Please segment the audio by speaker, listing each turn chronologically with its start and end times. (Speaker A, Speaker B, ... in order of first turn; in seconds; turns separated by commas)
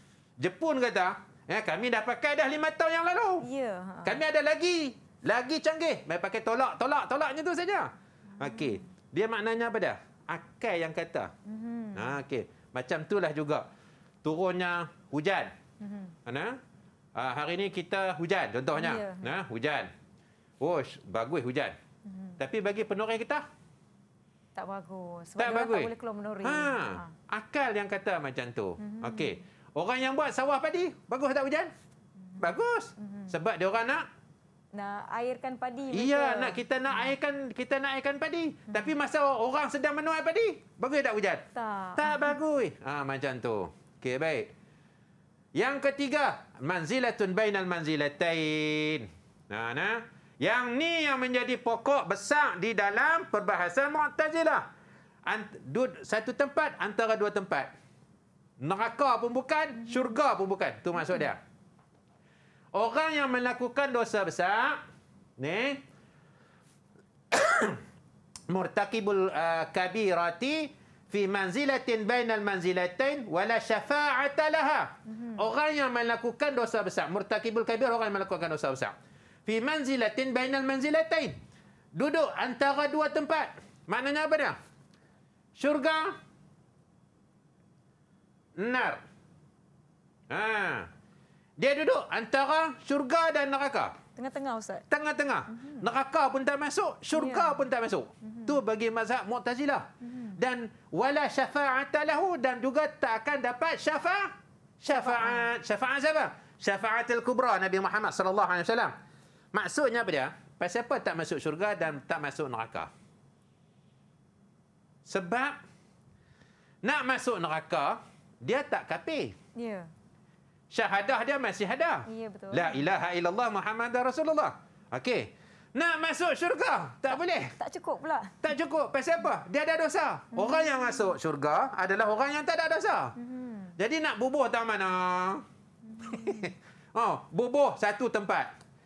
Speaker A: 0.4-3.4, Speaker B: 3.4-4.2, Speaker A: 4.0-11.3, Speaker B: 8.3-8.8, Speaker B: 11.5-12.2, Speaker A: 11.9-13.7, Speaker A: 14.2-15.5, Speaker B: 15.8-16.1, Speaker A: 16.2-16.6, Speaker A: 17.1-19.9, Speaker B: 18.7-19.3, Speaker A: 20.6-21.8, Speaker B: 22.0-22.4, Speaker A: 22.4-23.4, Speaker B: 24.6-27.1, Speaker A: 25.4-25.9, Speaker A: 26.4-31.7, Speaker B: 28.8-29.4, Speaker B: 32.2-33.3, Speaker A: 32.4-34.1, Speaker B: 34.7-37.1, Speaker A: 35.9-41.4, Speaker B: 38.7-38.9, Speaker B: 41.5-42.3, Speaker A: 42.0-44.5, Speaker A: 45.5-54.7, Speaker A: 55.2-57.7, Speaker A: 58.6-61.4, Speaker B: 59.8-60.1, Speaker A: 62.7-64.8, Speaker A: 65.4-65.8, Speaker A: 67.3-67.8, Speaker A: 68.5-78.9, Speaker B: 75.1-75.5, Speaker A: 79.5-81.3, Speaker A: 81.9-84.6, Speaker A: 85.6-86.2, Speaker A: 88.6-89.0, Speaker A: 90.3-90.9, Speaker A: 91.6-94.0, Speaker B: 94.2-94.8, Speaker A: 94.9-108.9, Speaker B: 95.5-95.8, Speaker B: 97.1-97.6, Speaker B: 98.2-98.6, Speaker B: 100.0-100.4, Speaker B: 105.0-105.5, Speaker A: 109.5-112.9, Speaker A: 115.0-115.6, Speaker A: 116.8-119.3, Speaker B: 119.6-119.9, Speaker A: 120.7-127.5, Speaker B: 122.1-122.8, Speaker B: 127.1-128.4, Speaker A: 128.4-133.1, Speaker B: 130.3-131.2, Speaker B: 133.2-133.7, Speaker A: 133.8-135.4, Speaker B: 135.8-136.5, Speaker A: 136.0-138.5